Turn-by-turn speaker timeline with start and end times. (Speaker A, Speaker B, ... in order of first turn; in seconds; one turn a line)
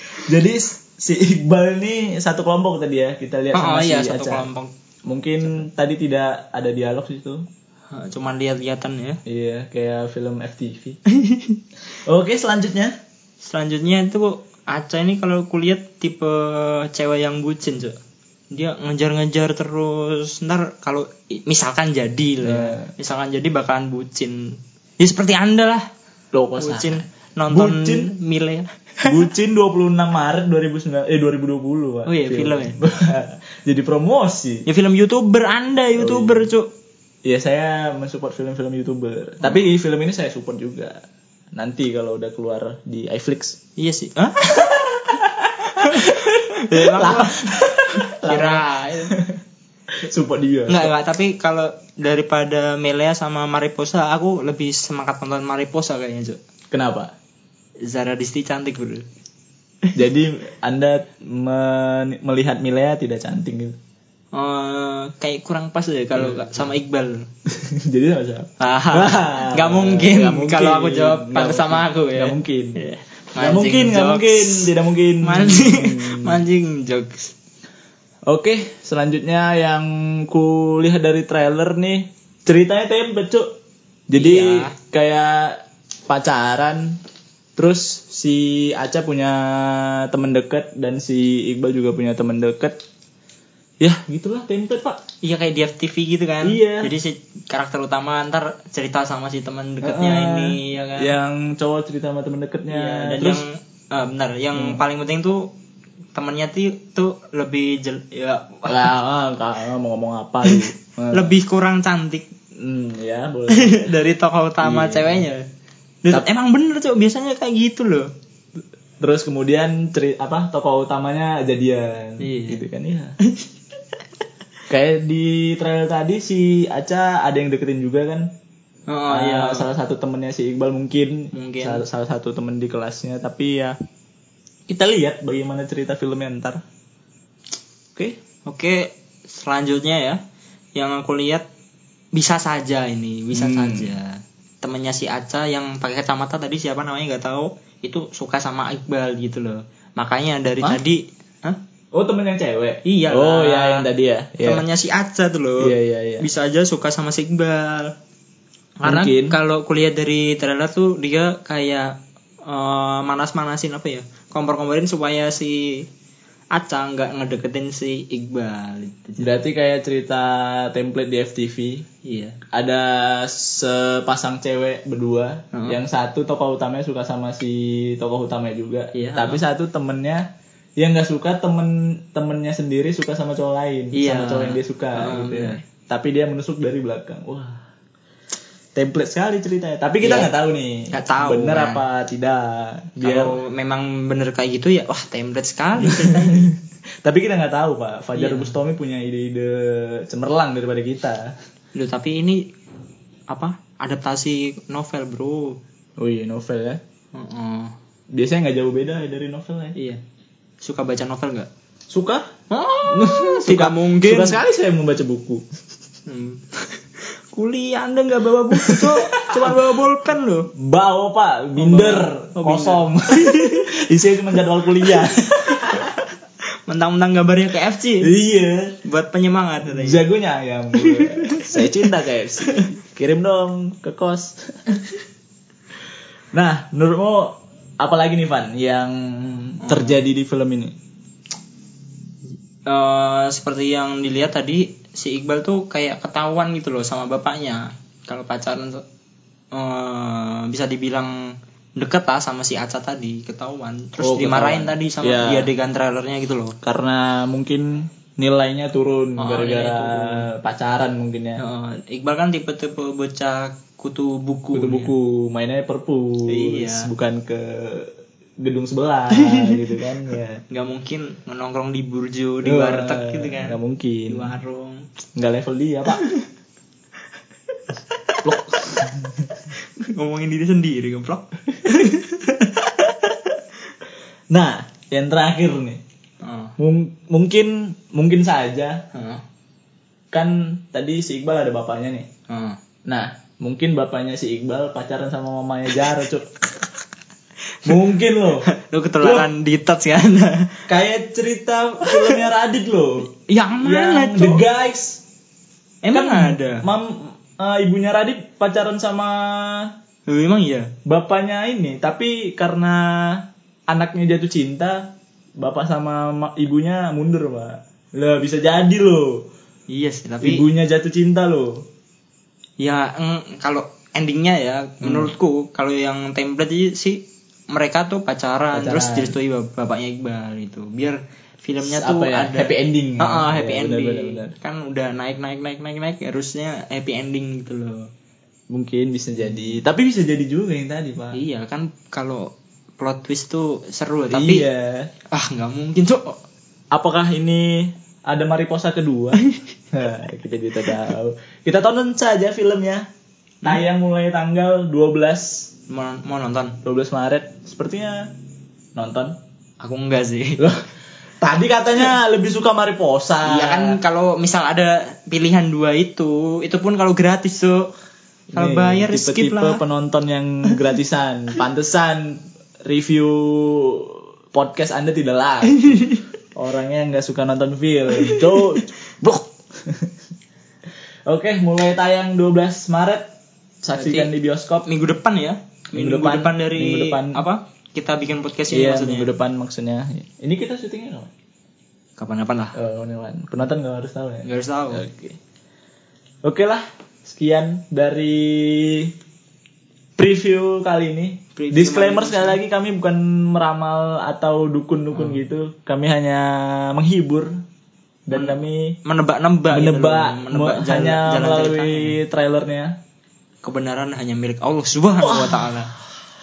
Speaker A: 0.2-4.5
Speaker B: 3.5-4.7
Speaker A: 5.1-7.4
Speaker B: 7.9-9.2
Speaker A: 9.2-11.0
Speaker B: 11.1-11.6
Speaker A: 12.0-12.9
Speaker B: 13.4-17.9
Speaker B: 18.5-25.9
Speaker A: 22.4-22.9
Speaker A: 26.3-28.1
Speaker B: 26.6-29.2
Speaker A: 29.1-34.6
Speaker B: 32.1-32.8
Speaker B: 34.6-36.7
Speaker A: 36.0-36.5
Speaker A: 37.2-41.0
Speaker A: 41.5-43.6
Speaker B: 43.8-44.7
Speaker A: 44.6-49.3
Speaker B: 45.8-47.5
Speaker B: 48.1-49.1
Speaker A: 50.0-50.9
Speaker B: 50.7-56.4
Speaker A: 56.7-57.1
Speaker B: 57.8-59.0
Speaker A: 59.9-63.8
Speaker B: 64.3-67.2
Speaker A: 66.1-66.7
Speaker A: 67.5-72.8
Speaker B: 68.6-74.7
Speaker A: 73.4-76.3
Speaker B: 75.2-77.3
Speaker A: 78.3-83.5
Speaker A: 84.1-87.0
Speaker B: 84.2-84.7
Speaker A: 87.5-92.8
Speaker A: 93.8-95.0
Speaker B: 95.2-101.1
Speaker A: 96.4-96.9
Speaker A: 99.8-103.4
Speaker B: 102.7-105.5
Speaker A: 104.5-104.8
Speaker B: 106.1-108.9
Speaker A: 108.7-111.3
Speaker B: 111.1-112.2
Speaker A: 112.5-113.9
Speaker B: 113.5-115.4
Speaker A: 114.6-115.3
Speaker B: 116.0-118.1
Speaker A: 119.0-123.1
Speaker B: 122.2-122.6
Speaker A: 124.7-128.3
Speaker B: 128.9-129.7
Speaker A: 129.1-133.8
Speaker B: 131.3-131.8
Speaker A: 134.7-136.6
Speaker B: 138.4-140.2
Speaker B: 140.7-141.4
Speaker B: 142.1-151.6
Speaker A: 143.3-143.9
Speaker A: 151.9-154.6
Speaker B: 152.8-153.8
Speaker B: 154.4-157.9
Speaker A: 155.6-156.2
Speaker B: 158.8-161.9
Speaker A: 158.8-159.4
Speaker B: 162.5-165.8
Speaker B: 166.5-169.3
Speaker A: 169.2-171.8
Speaker B: 172.0-172.4
Speaker A: 172.5-180.2
Speaker B: 175.5-175.8
Speaker B: 178.9-179.4
Speaker A: 180.8-187.6
Speaker B: 183.9-185.6
Speaker A: 188.7-193.4
Speaker B: 190.0-190.3
Speaker B: 190.9-191.8
Speaker B: 193.0-196.5
Speaker A: 195.8-201.3
Speaker B: 198.1-198.5
Speaker B: 201.7-202.5
Speaker B: 203.3-205.6
Speaker A: 206.0-206.8
Speaker B: 207.1-207.7
Speaker A: 208.1-209.7
Speaker B: 210.6-211.5
Speaker A: 211.9-212.3
Speaker B: 212.5-214.4
Speaker A: 212.9-215.4
Speaker B: 216.1-216.8
Speaker B: 217.3-220.5
Speaker A: 218.6-219.6
Speaker A: 220.6-226.0
Speaker B: 221.6-223.6
Speaker B: 226.7-228.1
Speaker A: 228.0-228.8
Speaker B: 228.8-230.0
Speaker A: 229.7-234.6
Speaker B: 230.8-231.9
Speaker A: 236.3-240.7
Speaker B: 239.6-240.0
Speaker B: 242.7-248.8
Speaker B: 249.5-251.1
Speaker B: 251.8-256.6
Speaker A: 254.0-255.5
Speaker A: 256.6-261.4
Speaker B: 259.2-260.3
Speaker B: 261.4-264.9
Speaker A: 264.5-267.9
Speaker B: 266.3-266.9
Speaker A: 268.4-270.4
Speaker B: 269.1-269.6
Speaker B: 270.5-273.6
Speaker A: 272.4-274.3
Speaker B: 274.1-274.9
Speaker A: 275.1-276.0
Speaker B: 276.0-276.2
Speaker B: 278.0-278.3
Speaker A: 278.2-279.3
Speaker B: 279.5-283.3
Speaker A: 284.3-285.8
Speaker B: 286.2-286.5
Speaker A: 286.6-288.8
Speaker B: 288.9-289.2
Speaker A: 290.1-292.1
Speaker B: 292.3-292.6
Speaker A: 292.9-296.3
Speaker A: 297.6-298.5
Speaker B: 298.5-300.6
Speaker A: 299.0-299.3
Speaker A: 300.7-303.1
Speaker B: 301.9-302.2
Speaker B: 303.3-304.4
Speaker A: 303.6-305.0
Speaker B: 305.8-306.6
Speaker A: 305.9-309.7
Speaker B: 310.1-310.7
Speaker A: 310.9-319.3
Speaker B: 319.7-320.4
Speaker A: 320.2-321.6
Speaker B: 322.6-337.9
Speaker A: 324.8-325.1
Speaker A: 328.5-329.1
Speaker A: 331.6-334.3
Speaker A: 338.5-341.2
Speaker B: 339.2-339.6
Speaker B: 341.1-344.5
Speaker A: 344.1-344.9
Speaker B: 345.1-346.2
Speaker A: 346.7-352.8
Speaker A: 353.4-355.5
Speaker B: 355.7-356.6
Speaker A: 356.6-358.1
Speaker A: 358.8-359.1
Speaker B: 359.6-360.5
Speaker A: 360.4-360.7
Speaker A: 361.2-363.8
Speaker B: 363.2-367.7
Speaker B: 368.3-369.6
Speaker A: 368.3-375.8
Speaker B: 375.6-376.0
Speaker A: 376.4-379.9
Speaker B: 378.0-378.4
Speaker A: 381.1-383.1
Speaker A: 383.6-384.7
Speaker B: 383.8-384.1
Speaker B: 384.6-389.1
Speaker A: 385.7-387.2
Speaker A: 388.5-391.1
Speaker B: 392.0-392.5
Speaker A: 392.5-395.2
Speaker B: 394.2-394.8
Speaker A: 396.2-398.9
Speaker A: 400.0-407.3
Speaker B: 401.4-402.4
Speaker B: 404.9-405.2
Speaker A: 408.1-408.8
Speaker B: 408.1-411.9
Speaker A: 409.5-412.7
Speaker B: 413.4-415.7
Speaker A: 415.0-415.6